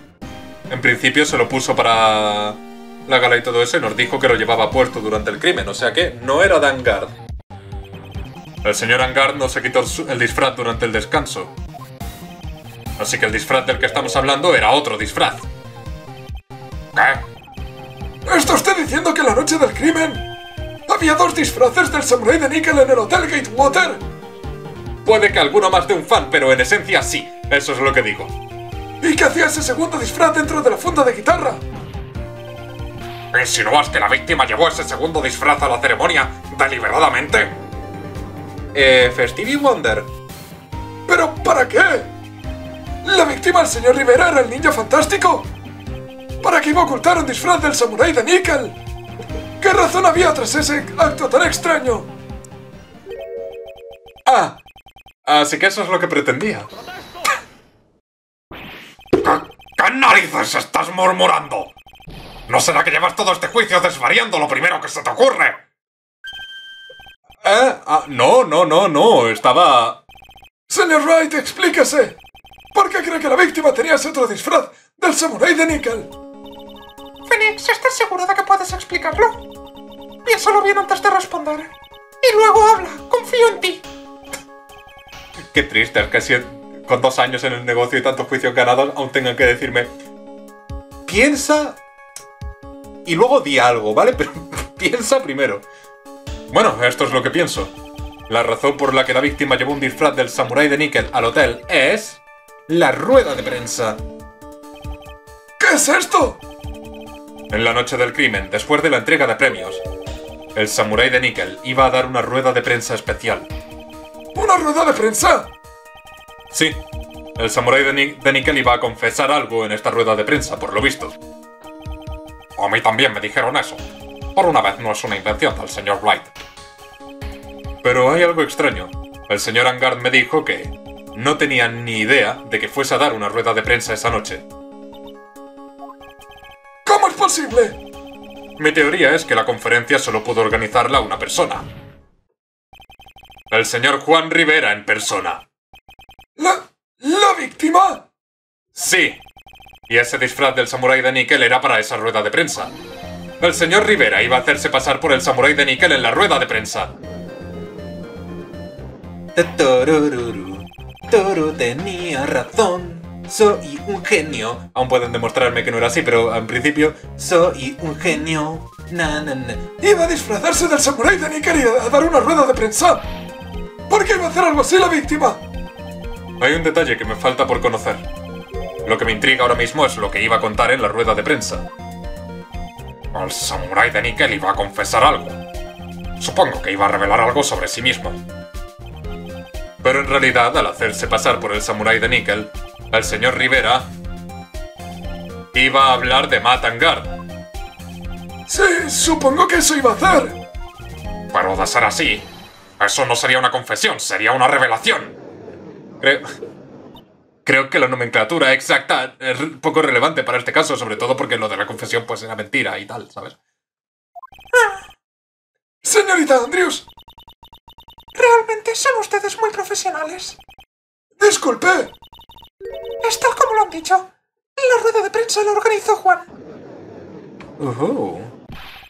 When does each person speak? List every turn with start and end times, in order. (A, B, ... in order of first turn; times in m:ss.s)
0:00.7-0:07.1 A
0:08.6-0:11.5 A
0:13.0-0:15.5 A
0:16.9-0:17.2 A
0:18.2-0:20.3 B
0:20.9-0:24.0 B
0:25.0-0:28.3 A
0:29.0-0:31.6 B
0:33.3-0:37.6 A
0:38.7-0:40.1 A
0:41.1-0:42.1 B
0:43.0-0:45.5 B
0:46.4-0:48.8 B
0:49.6-0:52.1 B
0:54.3-0:54.6 A
0:55.2-0:56.7 A
0:59.2-1:01.7 A
1:02.5-1:05.6 A
1:07.4-1:10.0 A
1:10.7-1:12.2 B
1:12.7-1:16.1 B
1:17.3-1:19.4 C
1:20.2-1:21.7 C
1:22.2-1:23.8 C
1:25.5-1:29.9 A
1:31.1-1:31.8 A
1:33.0-1:35.6 A
1:36.5-1:37.7 A
1:38.3-1:44.0 A
1:45.6-1:46.4 B
1:47.5-1:49.8 A
1:50.6-1:53.5 A
1:54.3-1:55.5 B
1:56.5-1:56.8 A
1:57.4-2:01.2 A
2:02.6-2:03.8 A
2:04.3-2:06.3 A
2:07.8-2:14.4 A
2:16.8-2:17.8 B
2:18.6-2:21.7 A
2:23.5-2:25.4 A
2:26.4-2:28.1 B
2:28.8-2:29.2 A
2:29.9-2:32.7 A
2:33.4-2:36.9 A
2:39.4-2:49.7 A
2:49.8-2:53.0 B
2:53.9-2:55.4 B
2:56.4-2:58.1 A
2:58.8-3:01.7 A
3:03.1-3:05.4 A
3:06.2-3:08.2 A
3:09.8-3:13.9 A
3:15.5-3:17.2 A
3:18.5-3:20.4 B
3:21.3-3:22.3 A
3:22.8-3:25.2 A
3:26.0-3:26.3 A
3:27.4-3:33.4 A
3:34.5-3:34.8 C
3:35.8-3:36.9 B
3:38.2-3:40.4 C
3:41.2-3:41.9 B
3:43.0-3:46.3 C
3:47.6-3:48.3 A